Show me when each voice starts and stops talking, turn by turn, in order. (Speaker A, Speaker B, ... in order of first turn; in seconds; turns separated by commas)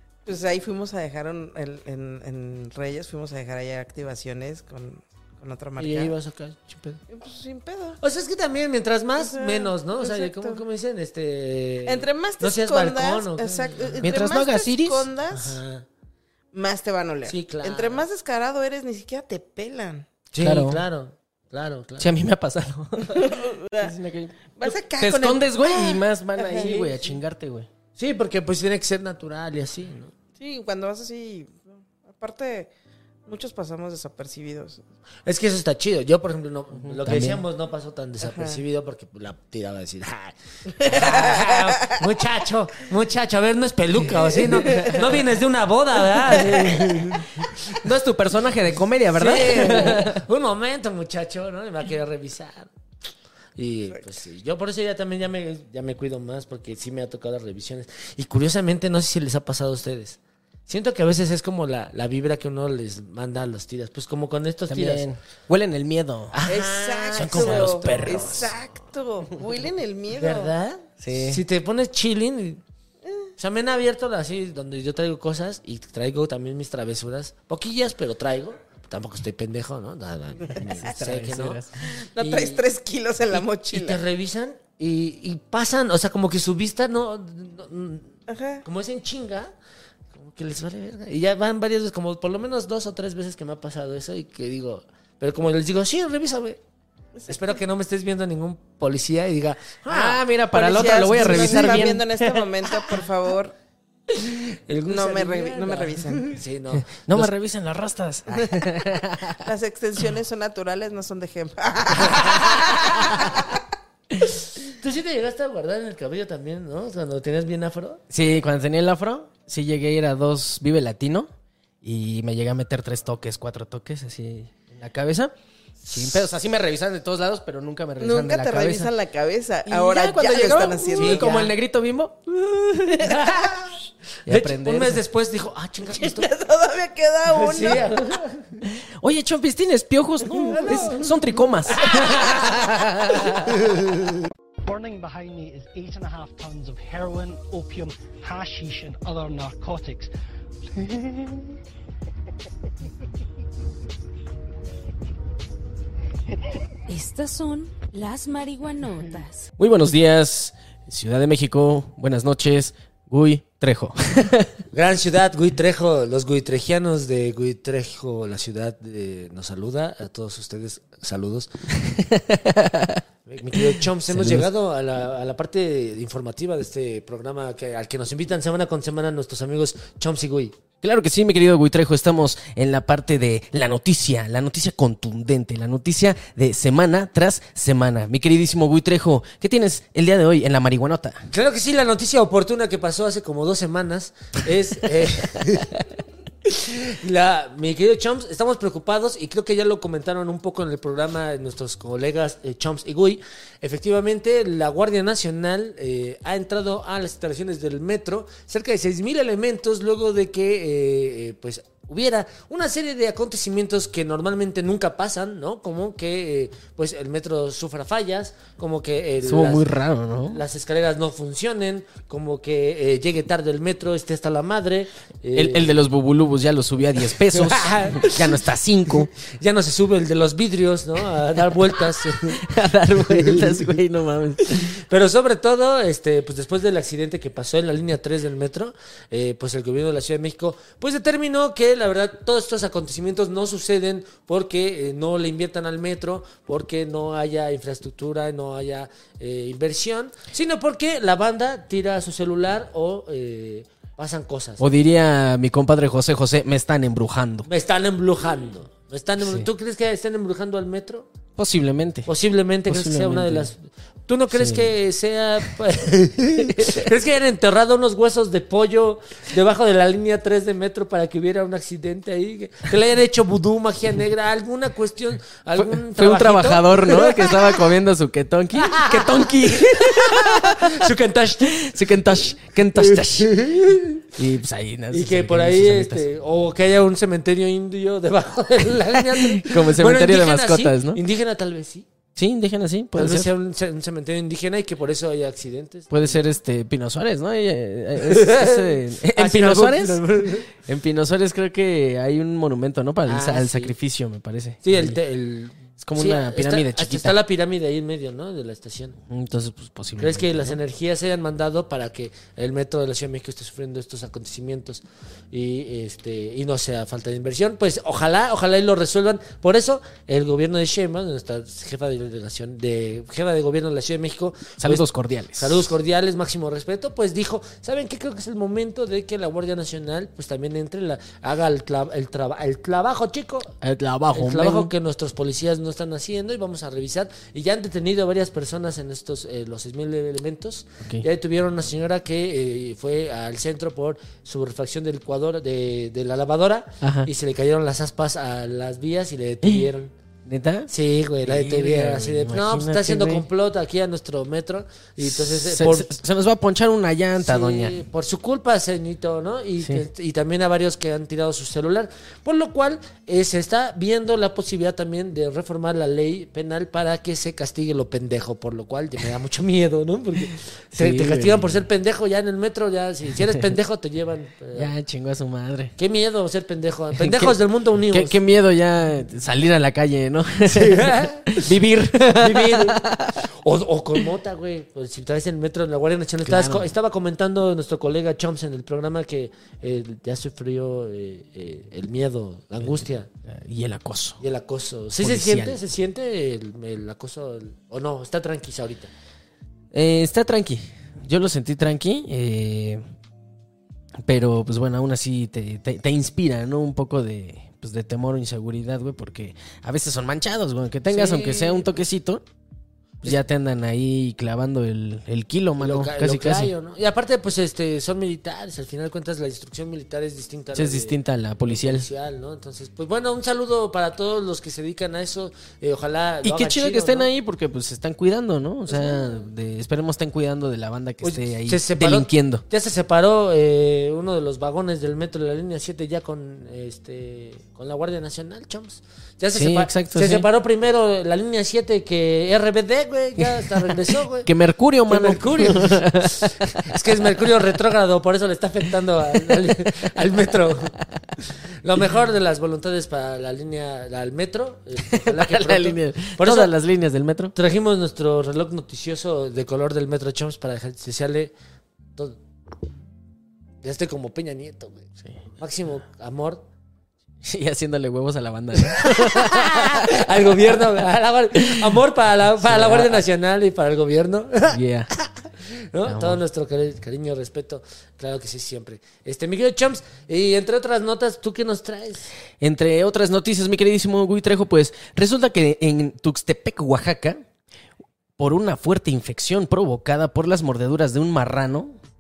Speaker A: 0.3-6.1, Speaker B: 5.8-7.0, Speaker A: 7.1-8.0, Speaker B: 8.0-14.1, Speaker A: 9.2-10.6, Speaker A: 11.9-15.6, Speaker C: 14.0-15.1, Speaker B: 15.3-15.9, Speaker A: 16.5-20.1, Speaker B: 17.3-18.1, Speaker B: 20.3-22.1, Speaker C: 20.4-20.8, Speaker C: 22.0-27.7, Speaker A: 23.1-23.9, Speaker A: 24.6-27.2, Speaker B: 28.0-30.1, Speaker A: 30.4-32.7, Speaker A: 33.3-34.8, Speaker B: 35.3-47.7, Speaker C: 36.8-37.4, Speaker A: 38.2-38.6, Speaker A: 40.8-42.0, Speaker A: 44.4-45.1, Speaker A: 46.5-46.9, Speaker C: 47.7-50.2, Speaker B: 49.1-52.7, Speaker B: 53.6-65.1, Speaker C: 64.7-66.4, Speaker B: 66.3-68.6, Speaker A: 66.5-70.5, Speaker C: 67.2-68.5, Speaker B: 70.1-72.6, Speaker C: 71.0-71.4, Speaker B: 73.4-81.6, Speaker C: 80.7-81.9, Speaker A: 81.9-84.0, Speaker B: 82.2-82.6, Speaker B: 83.3-89.5, Speaker A: 88.3-88.6, Speaker B: 90.1-96.6, Speaker B: 97.3-100.2, Speaker C: 99.9-102.5, Speaker A: 100.5-103.5, Speaker B: 104.1-107.3, Speaker A: 104.9-106.4, Speaker C: 107.0-109.5, Speaker A: 109.4-113.6, Speaker B: 112.0-112.8, Speaker B: 114.6-118.0, Speaker C: 118.1-121.3, Speaker C: 121.8-128.9, Speaker A: 128.0-131.5, Speaker C: 129.7-133.1, Speaker B: 131.0-131.5, Speaker B: 133.0-133.8, Speaker C: 134.3-135.0, Speaker B: 134.3-136.3, Speaker A: 135.9-138.1, Speaker B: 137.3-138.5, Speaker C: 138.7-143.6, Speaker A: 140.5-140.8, Speaker B: 140.5-141.0, Speaker B: 141.9-142.3, Speaker D: 144.6-150.1, Speaker D: 150.7-151.6, Speaker E: 156.9-159.5, Speaker C: 159.6-164.6, Speaker B: 164.7-171.5, Speaker C: 171.8-174.5, Speaker B: 173.3-180.6, Speaker C: 180.8-191.3, Speaker B: 191.3-195.7, Speaker B: 196.4-219.7, Speaker C: 219.2-220.4, Speaker B: 220.3-225.8, Speaker C: 225.3-229.1, Speaker B: 227.3-228.4, Speaker B: 229.2-232.4, Speaker C: 232.2-234.8, Speaker B: 233.2-233.5, Speaker B: 234.6-254.7, Speaker C: 254.6-257.5, Speaker B: 257.4-261.1, Speaker C: 259.2-259.5, Speaker C: 261.4-262.1, Speaker B: 262.1-277.6, Speaker C: 262.7-263.5, Speaker C: 264.3-264.7, Speaker C: 266.4-266.9, Speaker C: 275.6-280.9, Speaker B: 278.6-281.7, Speaker C: 281.5-283.4, Speaker B: 282.8-284.1, Speaker C: 284.1-286.1, Speaker B: 284.9-291.9, Speaker C: 289.1-291.0, Speaker C: 292.2-293.3, Speaker B: 292.9-296.2, Speaker C: 295.9-305.0, Speaker B: 298.0-300.5, Speaker B: 303.1-303.8, Speaker B: 304.6-309.0, Speaker C: 305.8-307.2, Speaker C: 309.1-310.6, Speaker B: 310.0-333.6, Speaker C: 324.6-325.7, Speaker C: 333.6-334.7, Speaker B: 334.1-349.9, Speaker C: 346.8-347.1, Speaker C: 350.2-350.7, Speaker B: 350.7-356.0, Speaker C: 351.2-353.3, Speaker C: 355.0-357.8, Speaker B: 357.2-374.7, Speaker C: 370.7-371.6, Speaker C: 373.3-373.5, Speaker C: 374.6-375.7, Speaker B: 375.8-378.2, Speaker C: 376.9-377.4, Speaker C: 377.9-383.2, Speaker B: 380.5-393.1, Speaker C: 386.2-386.7, Speaker C: 393.3-394.2, Speaker B: 394.2-398.9, Speaker C: 395.0-395.6, Speaker C: 399.7-402.8, Speaker C: 404.0-412.2, Speaker B: 410.9-411.7, Speaker C: 413.0-416.5, Speaker B: 415.6-427.1, Speaker C: 420.5-421.9, Speaker C: 426.2-432.4, Speaker B: 428.7-429.2, Speaker B: 431.0-444.3, Speaker C: 439.3-440.3, Speaker C: 444.2-446.8, Speaker B: 444.9-456.5, Speaker C: 454.9-457.3, Speaker B: 457.4-461.3, Speaker B: 462.0-462.2, Speaker B: 463.6-466.4, Speaker C: 467.2-470.1, Speaker B: 468.7-482.1, Speaker C: 471.4-471.8, Speaker C: 472.4-473.0, Speaker C: 474.5-474.9, Speaker C: 475.9-476.2, Speaker C: 482.4-487.2, Speaker C: 488.2-491.8